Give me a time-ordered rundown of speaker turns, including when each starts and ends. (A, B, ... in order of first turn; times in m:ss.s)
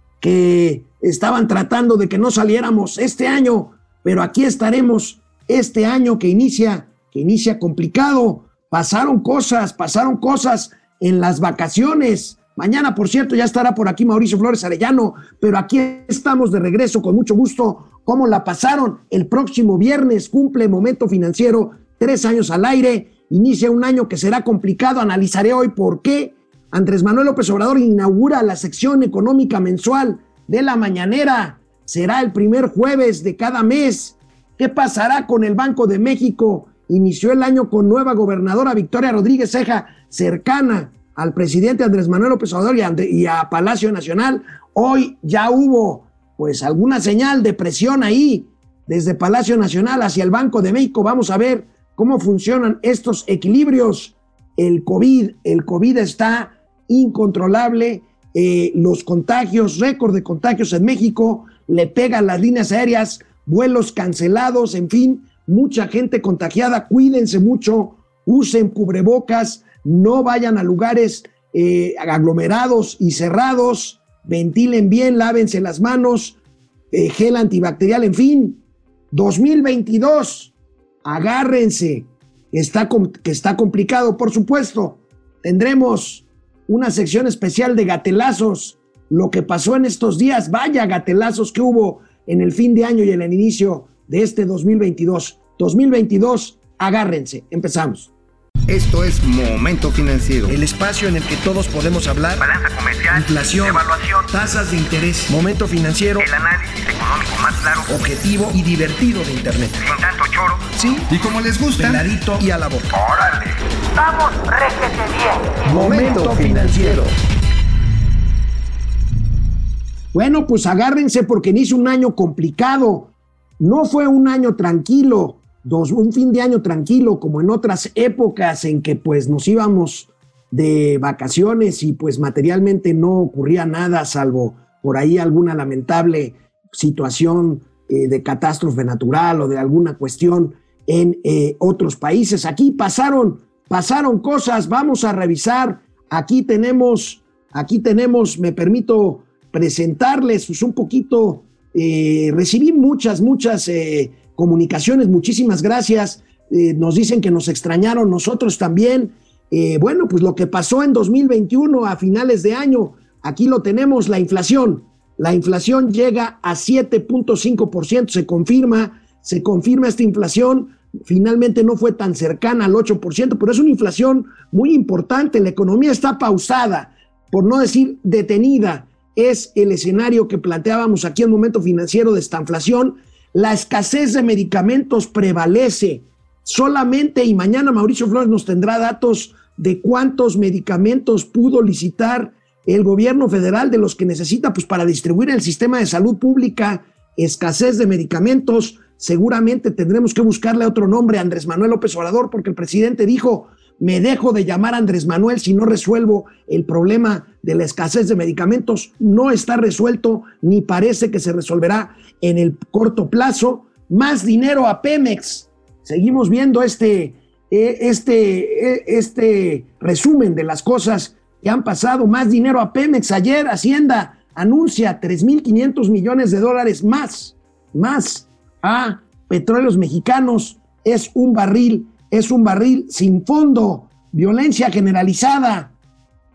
0:00.2-1:16.4 A
1:16.9-1:18.6 A
1:19.1-1:20.5 A
1:21.0-1:38.1 A
1:38.7-1:40.5 B
1:40.5-1:42.5 A
1:42.4-1:44.3 B
1:43.1-1:46.3 A
1:46.2-1:48.2 B
1:47.9-1:49.8 A
1:49.8-1:52.0 B
1:50.8-1:51.1 A
1:51.8-1:52.9 A
1:52.9-1:57.1 B
1:55.6-1:57.1 A
2:00.1-3:55.7 A